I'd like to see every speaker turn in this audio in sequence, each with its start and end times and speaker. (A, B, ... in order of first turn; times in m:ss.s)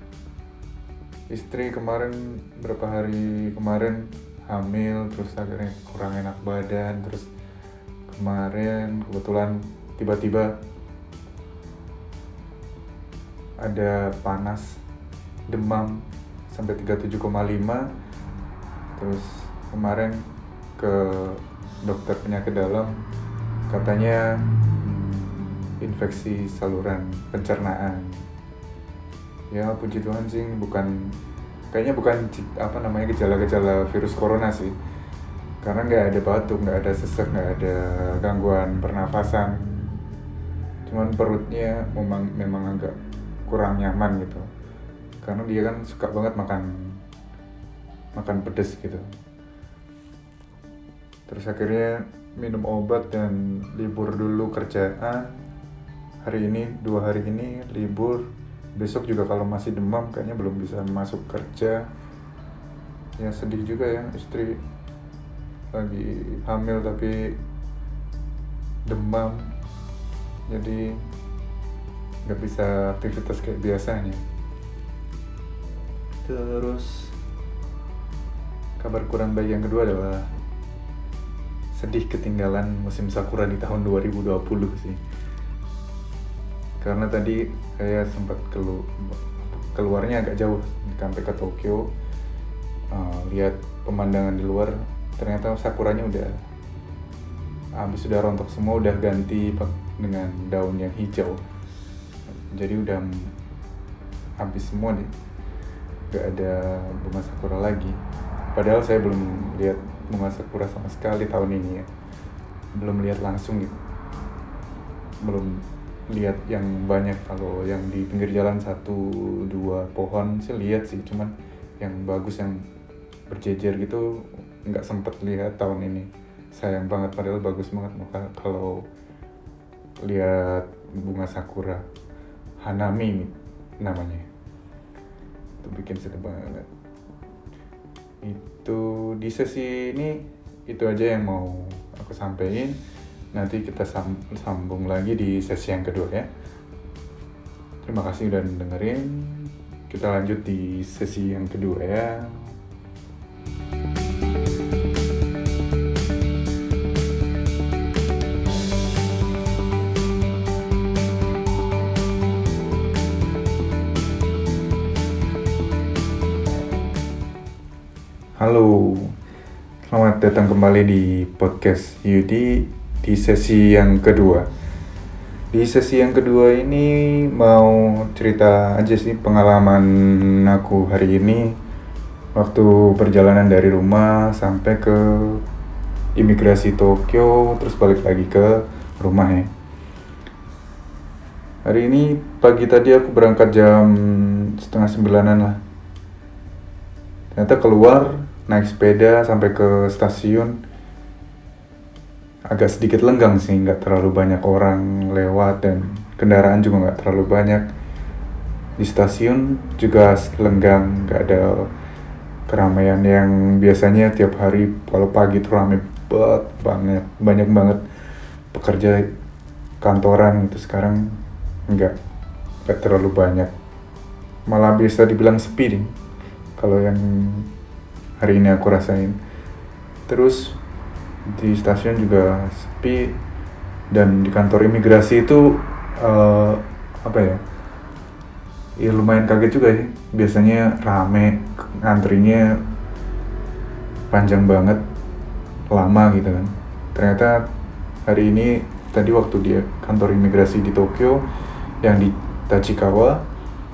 0:01.3-0:07.3 A
0:08.1-0:10.5 A
0:13.6-0:14.8 A
0:15.5-0:17.9 A
0:19.0-0:20.2 A
0:20.8-0:22.9 A
0:23.7-0:28.2 A
0:29.5-0:31.2 A
0:31.7-0:34.7 A
0:35.6-0:40.0 A
0:40.8-0:44.4 A
0:45.2-0:47.0 A
0:48.2-0:49.1 A
0:51.3-0:55.4 A
0:56.2-1:01.8 A
1:03.2-1:04.6 A
1:05.7-1:07.3 A
1:08.8-1:09.5 A
1:10.5-1:11.0 A
1:12.2-1:14.2 A
1:16.2-1:17.2 A
1:18.8-1:20.3 A
1:21.7-1:25.0 A
1:26.8-1:31.9 A
1:32.9-1:36.3 A
1:37.8-1:41.4 A
1:42.5-1:43.3 A
1:44.4-1:45.1 A
1:46.1-1:48.0 A
1:48.5-1:51.9 A
1:52.7-1:53.8 A
1:55.2-2:02.6 A
2:03.3-2:08.8 A
2:10.0-2:11.8 A
2:12.6-2:14.2 A
2:15.6-2:16.7 A
2:18.2-2:22.8 A
2:23.3-2:26.3 A
2:27.8-2:32.6 A
2:48.4-2:49.1 A
2:49.8-2:54.5 A
2:55.5-3:01.5 A
3:02.4-3:05.4 A
3:06.2-3:09.5 A
3:11.6-3:15.6 A
3:17.3-3:20.6 A
3:22.5-3:27.6 A
3:28.8-3:31.7 A
3:32.5-3:37.8 A
3:38.5-3:39.1 A
3:39.8-3:41.9 A
3:42.6-3:43.5 A
3:44.5-3:45.9 A
3:46.6-3:47.5 A
3:48.2-3:49.2 A
3:50.1-3:50.6 A
3:51.2-3:53.2 A
3:53.9-3:57.4 A
3:58.8-4:02.6 A
4:04.1-4:04.8 A
4:05.7-4:07.4 A
4:08.0-4:11.2 A
4:11.8-4:13.2 A